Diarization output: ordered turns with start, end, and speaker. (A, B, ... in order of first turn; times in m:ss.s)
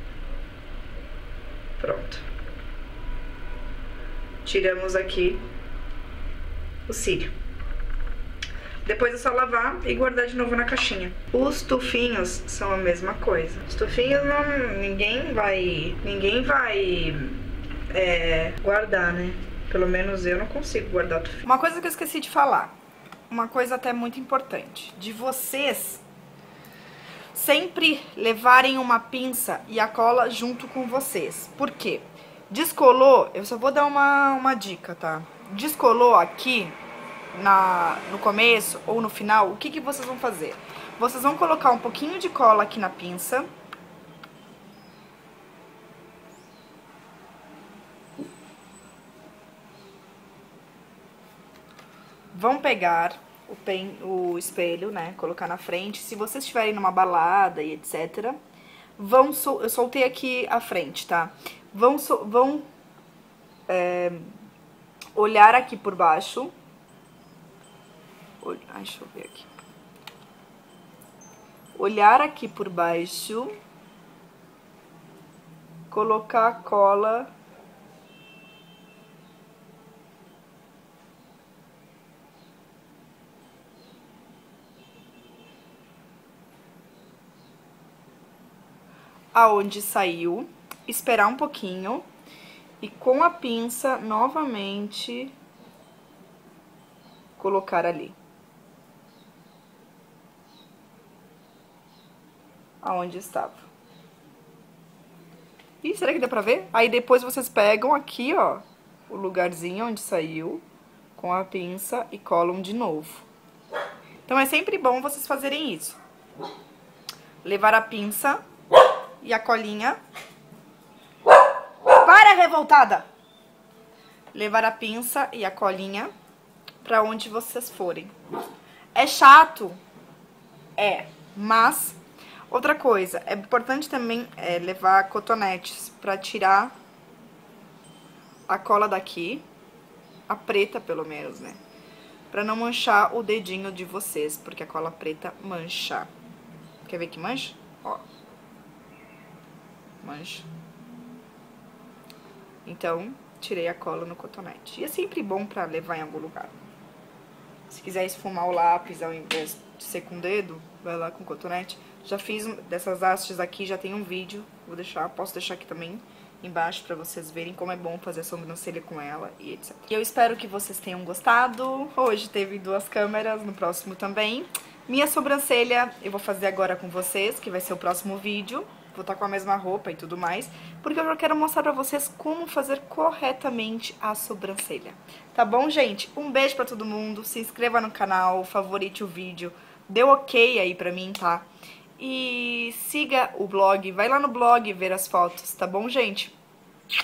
0:01.8-0:02.2 A
0:04.4-0:05.4 A
0:06.9-0:07.3 A
0:08.8-0:22.8 A
0:23.3-0:26.0 A
0:27.3-0:36.8 A
0:37.3-0:43.5 A
0:52.3-0:58.4 A
0:59.0-1:02.7 A
1:03.7-1:04.4 A
1:05.2-1:06.5 A
1:08.4-1:09.5 A
1:11.8-1:13.6 A
1:15.9-1:17.3 A
1:29.3-1:32.1 A
1:32.8-1:35.4 A
1:37.4-1:38.2 A
1:42.8-1:43.7 A
1:45.8-1:53.3 A
1:54.3-1:56.0 A
1:57.4-1:58.4 A
1:59.2-2:00.0 A
2:01.9-2:03.1 A
2:04.3-2:06.1 A
2:06.8-2:08.1 A
2:09.0-2:09.8 A
2:10.8-2:16.7 A
2:18.5-2:19.4 A
2:20.3-2:21.6 A
2:22.3-2:26.1 A
2:26.8-2:28.0 A
2:30.0-2:30.5 A
2:32.6-2:36.5 A
2:37.7-3:11.5 A
3:12.0-3:16.4 A